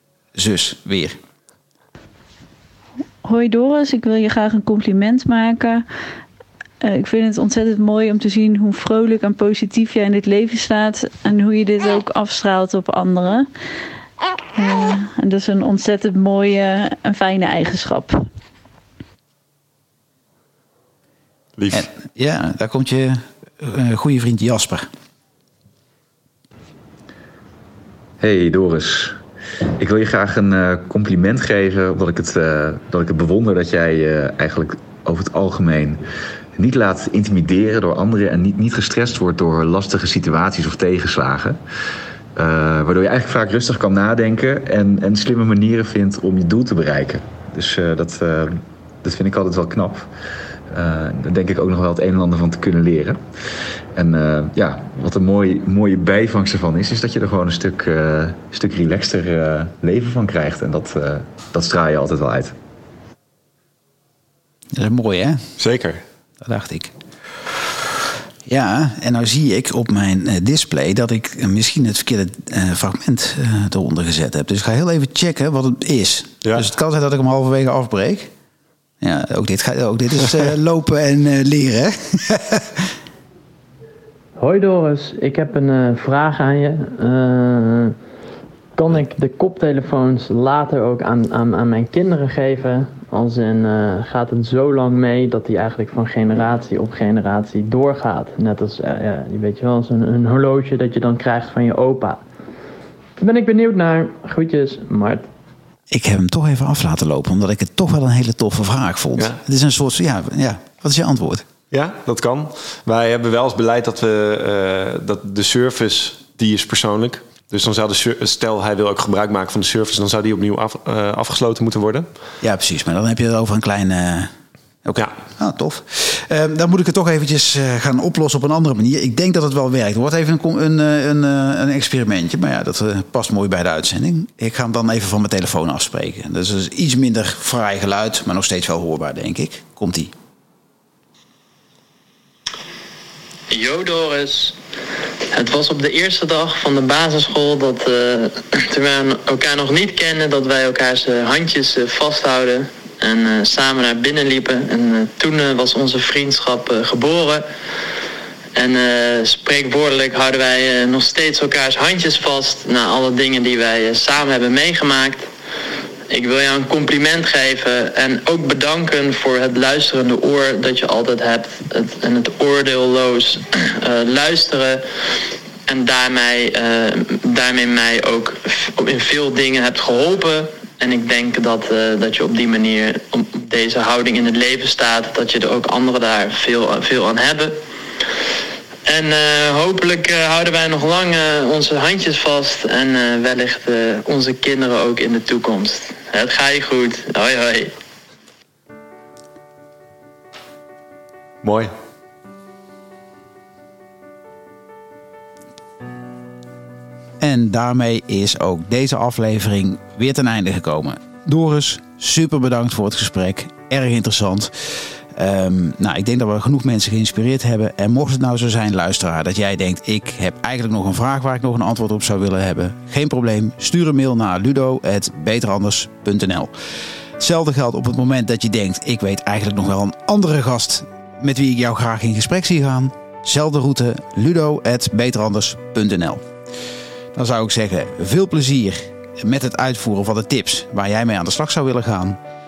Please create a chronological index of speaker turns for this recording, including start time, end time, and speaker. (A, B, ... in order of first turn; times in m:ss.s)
0:00.4-0:01.2 A
0:03.2-0:05.8 B
0:06.8-0:13.5 B
0:14.6-0:18.2 B
0:21.6-0:21.9 C
0:21.7-0:24.9 A
0:28.2-0:29.2 D
0:29.8-0:36.0 D
0:36.6-0:41.6 D
0:42.4-0:50.1 D
0:50.7-0:53.2 D
0:53.9-1:02.5 D
1:04.7-1:05.6 A
1:05.6-1:06.0 C
1:06.4-1:07.0 A
1:08.5-1:18.3 A
1:19.0-1:22.9 A
1:24.4-1:28.0 E
1:28.8-1:42.2 E
1:43.2-1:45.2 E
1:45.9-1:51.4 A
1:51.7-2:02.1 C
2:02.4-2:04.3 A
2:04.8-2:20.1 A
2:23.5-2:24.6 E
2:25.3-2:37.4 E
2:38.6-2:45.3 E
2:46.1-2:54.9 E
2:55.7-3:07.6 E
3:08.9-3:17.7 E
3:21.4-3:21.7 C
3:27.2-3:46.5 A
3:47.2-3:56.3 A
3:57.1-4:02.2 A